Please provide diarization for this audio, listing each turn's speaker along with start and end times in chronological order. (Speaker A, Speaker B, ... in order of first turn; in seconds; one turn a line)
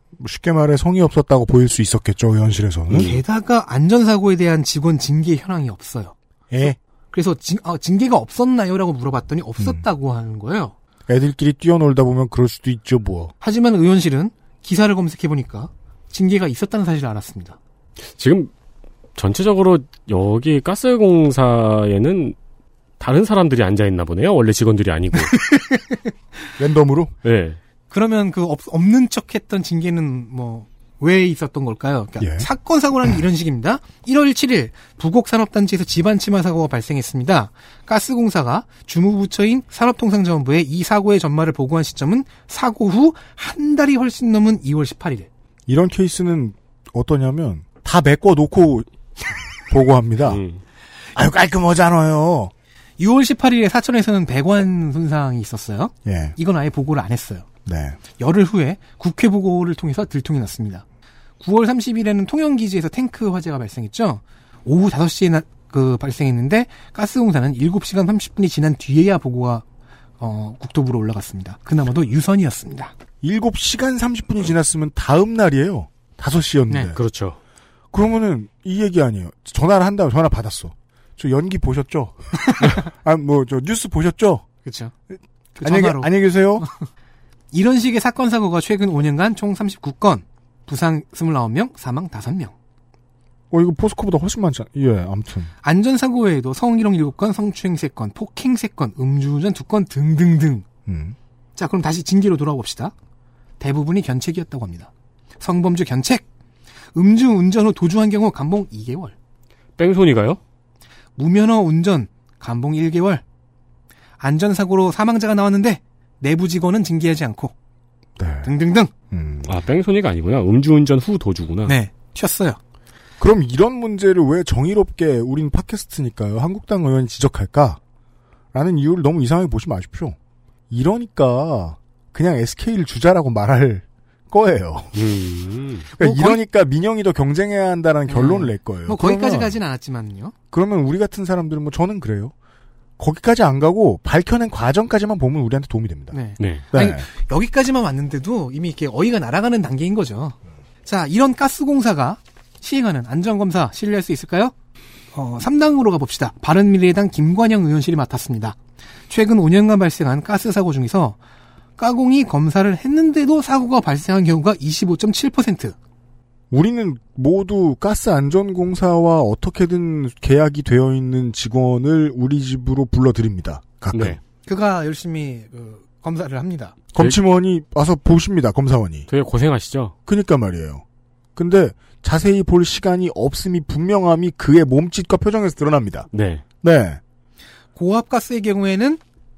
Speaker A: 0.2-3.1
Speaker B: 2.9-6.1
Speaker C: 2.9-3.2
Speaker A: 6.5-6.8
Speaker B: 7.1-10.7
Speaker A: 11.1-13.3
Speaker B: 13.4-17.6
Speaker C: 18.2-18.5
Speaker C: 19.2-22.4
Speaker C: 23.0-25.4
Speaker B: 25.3-26.0
Speaker A: 26.6-27.1
Speaker C: 27.2-27.6
Speaker B: 27.9-45.3
Speaker A: 32.2-32.5
Speaker A: 45.7-48.9
Speaker A: 49.6-50.4
Speaker C: 50.3-50.6
Speaker A: 51.2-52.5
Speaker B: 53.0-57.5
Speaker A: 56.0-56.4
Speaker A: 57.7-58.0
Speaker B: 58.2-60.8
Speaker B: 61.4-69.6
Speaker B: 70.2-72.9
Speaker A: 73.2-77.0
Speaker C: 76.9-77.4
Speaker A: 77.9-84.5
Speaker B: 82.5-82.8
Speaker B: 84.7-84.9
Speaker B: 85.5-86.7
Speaker A: 85.6-86.7
Speaker B: 87.5-92.5
Speaker A: 93.5-95.5
Speaker B: 95.6-100.7
Speaker A: 100.9-101.2
Speaker B: 101.6-102.9
Speaker B: 103.6-106.2
Speaker B: 107.0-109.1
Speaker C: 109.8-110.4
Speaker B: 111.2-113.2
Speaker B: 114.2-117.5
Speaker A: 118.2-118.5
Speaker B: 118.4-118.9
Speaker A: 119.1-119.5
Speaker C: 119.5-121.8
Speaker B: 121.7-122.6
Speaker A: 123.2-127.8
Speaker A: 128.5-130.2
Speaker A: 130.7-135.0
Speaker C: 134.9-135.9
Speaker B: 136.0-136.4
Speaker A: 136.0-139.6
Speaker B: 138.1-140.3
Speaker A: 140.5-142.3
Speaker A: 143.0-146.2
Speaker B: 146.1-154.5
Speaker A: 146.7-147.1
Speaker B: 155.1-158.6
Speaker B: 159.1-161.2
Speaker B: 161.8-165.8
Speaker A: 166.5-174.2
Speaker C: 173.9-174.2
Speaker B: 174.5-176.8
Speaker A: 176.9-179.1
Speaker C: 179.1-179.9
Speaker A: 180.1-180.8
Speaker A: 181.4-186.1
Speaker C: 186.1-186.4
Speaker A: 186.6-187.0
Speaker B: 187.8-189.0